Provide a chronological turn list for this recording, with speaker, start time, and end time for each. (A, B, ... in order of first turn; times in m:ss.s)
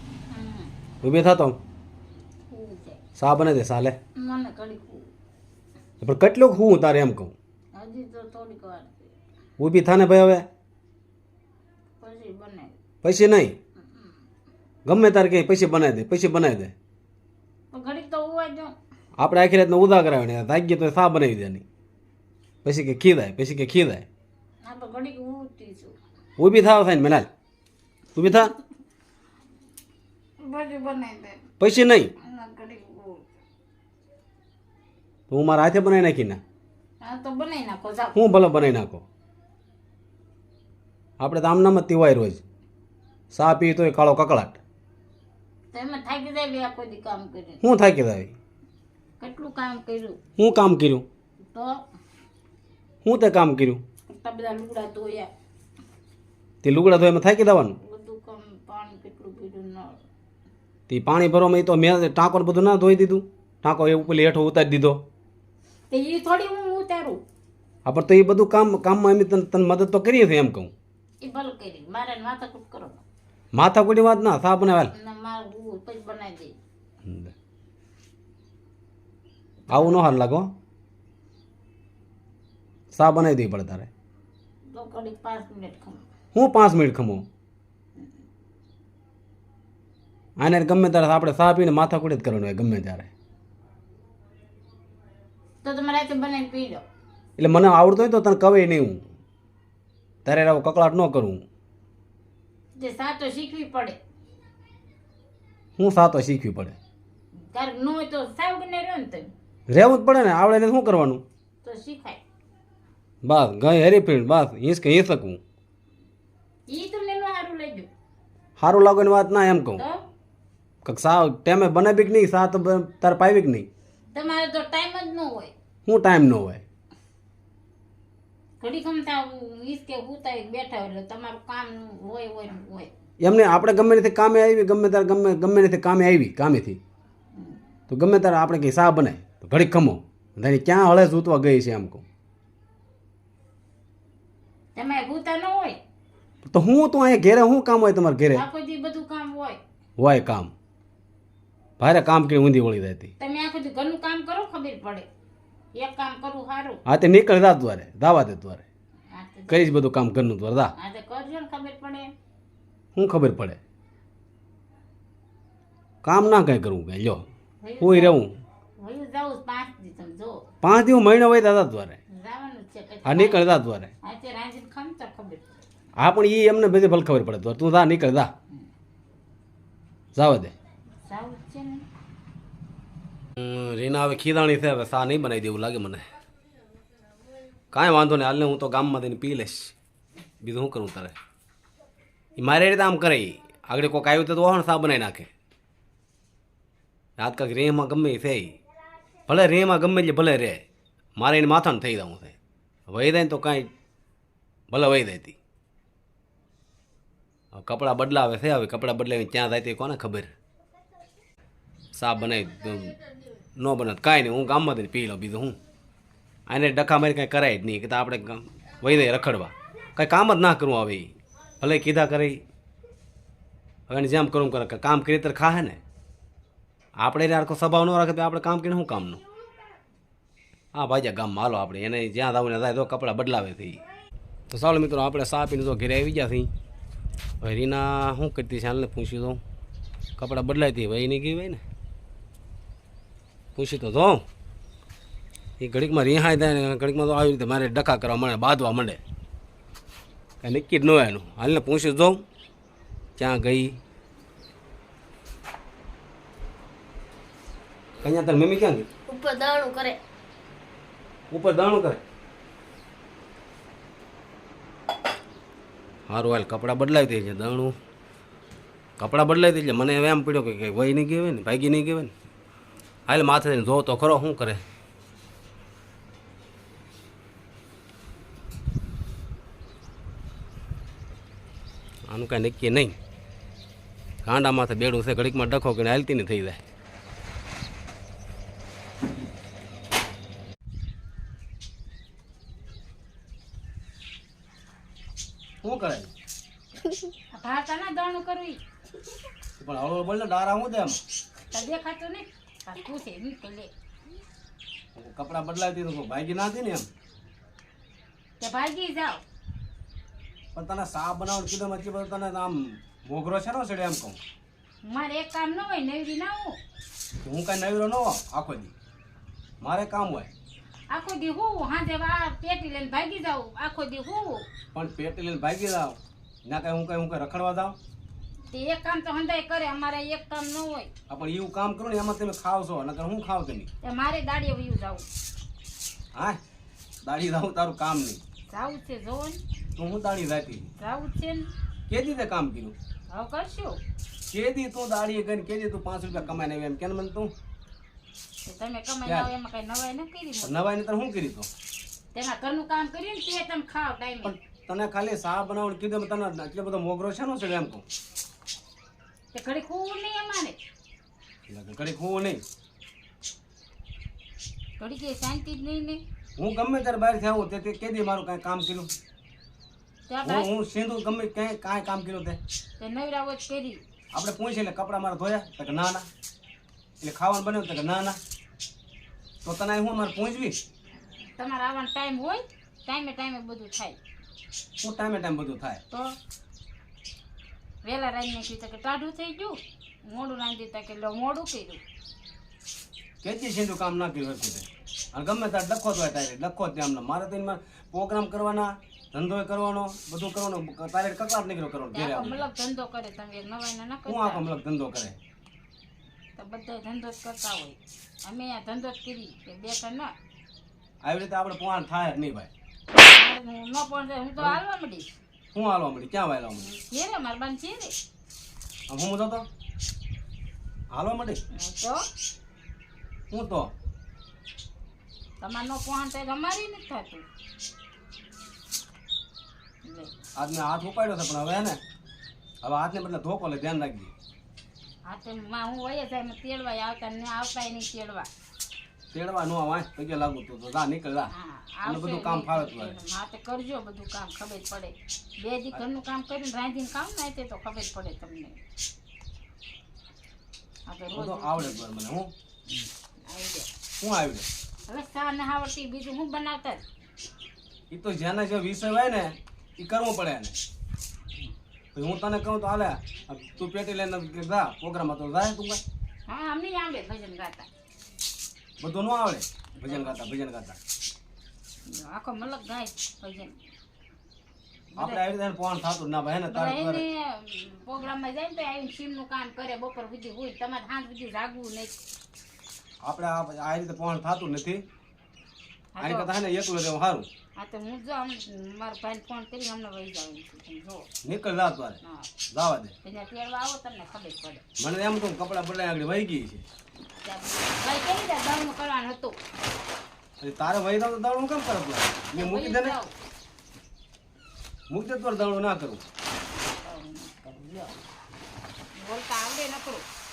0:00.3-0:00.7 A
0:01.0-0:01.6 B
0:02.5-0:03.0 A
0:03.2-0:04.0 B
0:04.2-0:05.1 A
0:06.0-0:07.3 B
0:07.7-0:09.1 A
0:09.6-0:10.5 B
0:12.0-0:12.8 A
0:13.0-0:13.6 B
0:13.9-0:14.2 A
0:14.9-0:16.7 B
0:17.7-0:18.7 A
0:19.2-0:21.6 B
0:22.6-0:24.0 B
0:24.6-0:26.0 A
0:26.4-0:27.3 B
0:28.1-0:28.5 B
0:30.4-0:31.4 A
0:31.6-0:32.1 B
0:32.2-0:33.3 A
0:35.3-0:36.4 B
0:37.0-0:38.1 A
0:38.1-0:39.0 B
0:41.2-0:42.4 B
0:43.3-0:44.6 B
0:45.7-0:47.6 A
0:47.6-0:48.3 B
0:49.2-0:50.2 A
0:50.4-0:51.0 B
0:51.5-0:51.8 A
0:53.0-0:53.8 B
0:54.1-0:55.3 A
0:56.6-0:57.8 B
0:57.8-1:00.0 A
1:00.9-1:05.0 B
1:05.9-1:07.2 A
1:07.8-1:10.7 B
1:11.2-1:13.0 A
1:13.5-1:14.9 B
1:14.9-1:16.5 A
1:17.0-1:17.3 B
1:19.7-1:20.0 A
1:19.7-1:20.5 B
1:22.9-1:23.9 B
1:24.7-1:26.1 A
1:26.3-1:27.2 B
1:30.4-1:33.1 B
1:35.6-1:36.8 A
1:37.4-1:39.0 B
1:40.2-1:41.4 B
1:42.8-1:44.0 A
1:45.8-1:46.8 B
1:47.5-1:49.2 A
1:49.7-1:51.2 B
1:51.6-1:52.2 A
1:53.2-1:55.4 B
1:56.7-1:57.9 A
1:58.6-1:59.8 B
1:59.8-2:00.0 A
2:00.8-2:03.7 B
2:04.1-2:05.5 A
2:05.8-2:06.6 B
2:08.6-2:12.9 A
2:13.2-2:16.8 B
2:17.9-2:22.0 B
2:24.8-2:25.8 A
2:26.4-2:28.5 B
2:28.3-2:29.6 A
2:30.0-2:30.5 B
2:31.8-2:33.1 B
2:33.2-2:35.1 A
2:35.7-2:36.8 A
2:36.8-2:38.6 B
2:39.1-2:39.7 A
2:39.5-2:40.7 B
2:40.8-2:42.1 A
2:43.0-2:43.6 B
2:46.0-2:47.2 B
2:47.6-2:48.2 A
2:47.8-2:48.3 B
2:48.8-2:50.5 A
2:50.6-2:52.0 B
2:52.1-2:53.4 A
2:53.0-2:53.9 B
2:54.0-2:55.6 A
2:56.0-2:58.3 B
3:00.2-3:00.5 B
3:01.0-3:01.8 A
3:03.4-3:06.0 B
3:07.7-3:09.8 B
3:10.4-3:11.2 B
3:12.4-3:15.3 B
3:17.2-3:18.6 B
3:19.3-3:20.6 B
3:21.2-3:22.4 B
3:22.9-3:23.7 B
3:24.7-3:25.4 B
3:27.5-3:30.3 B
3:32.0-3:32.9 B
3:33.6-3:35.6 B
3:36.5-3:42.4 B
3:43.9-3:45.8 B
3:47.0-3:49.2 B
3:50.7-3:53.8 B
3:54.5-3:56.5 B
3:57.4-3:59.4 B
4:00.2-4:01.6 B
4:03.6-4:04.2 B
4:05.6-4:09.0 B
4:10.4-4:12.2 B
4:13.2-4:13.8 B
4:18.0-4:18.9 B
4:19.1-4:20.0 A
4:21.3-4:22.0 B
4:26.1-4:27.8 B
4:29.0-4:32.1 B
4:33.1-4:34.6 B
4:42.1-4:43.0 B
4:44.2-4:46.6 B
4:55.6-4:56.1 B
4:57.3-4:58.6 A
4:59.6-5:01.0 B
5:01.5-5:03.7 A
5:05.0-5:06.9 B
5:08.4-5:09.2 A
5:10.6-5:14.2 B
5:14.8-5:16.6 A
5:17.2-5:18.7 B
5:19.6-5:20.3 B
5:20.9-5:24.5 A
5:24.7-5:27.8 B
5:28.5-5:30.9 A
5:31.1-5:33.7 B
5:33.8-5:35.0 A
5:36.1-5:36.4 B
5:37.0-5:38.2 B
5:38.5-5:39.4 A
5:39.8-5:40.7 B
5:40.8-5:41.5 A
5:41.9-5:42.8 B
5:43.1-5:43.8 A
5:44.3-5:47.3 B
5:48.4-5:50.7 A
5:50.4-5:51.5 B
5:52.1-5:54.4 A
5:54.5-5:57.8 B
5:59.3-6:00.6 A
6:01.5-6:02.4 B
6:04.8-6:06.0 A
6:06.4-6:08.9 B
6:10.1-6:10.5 A
6:10.2-6:12.4 B
6:12.8-6:13.8 A
6:14.1-6:16.1 B
6:17.0-6:18.2 B
6:19.4-6:20.6 B
6:21.4-6:24.0 A
6:24.8-6:25.8 B
6:25.9-6:26.2 A
6:27.8-6:31.8 A
6:33.2-6:42.5 B
6:41.9-6:44.4 A
6:44.1-6:45.2 B
6:46.4-6:50.1 A
6:51.0-6:52.5 B
6:53.0-6:55.2 A
6:55.5-6:56.7 B
6:56.6-6:58.0 A
6:58.9-6:59.5 B
7:00.9-7:01.4 B
7:01.5-7:02.0 A
7:03.3-7:03.7 B
7:05.4-7:07.2 A
7:09.8-7:10.1 A
7:10.4-7:11.8 B
7:12.6-7:14.1 B
7:15.1-7:18.3 A
7:19.1-7:21.3 B
7:21.3-7:28.6 A
7:21.8-7:23.0 B
7:30.9-7:31.8 A
7:31.1-7:32.3 B
7:33.3-7:33.7 A
7:34.0-7:34.5 B
7:34.9-7:36.8 A
7:37.9-7:40.6 B
7:41.9-7:45.8 B
7:46.3-7:47.7 A
7:48.8-7:50.8 B
7:49.8-7:50.2 A
7:51.9-7:53.6 A
7:54.9-7:55.4 A
7:55.0-7:57.0 B
7:56.5-8:02.0 A
8:03.0-8:04.9 B
8:06.0-8:06.3 A
8:06.0-8:07.3 B
8:07.6-8:11.1 A
8:11.2-8:12.0 B
8:12.0-8:12.3 A
8:12.5-8:12.9 B
8:13.0-8:14.6 A
8:14.8-8:16.6 B
8:17.2-8:19.4 A
8:20.4-8:23.0 B
8:22.3-8:23.1 A
8:24.9-8:26.0 B
8:26.8-8:28.0 A
8:29.0-8:30.0 A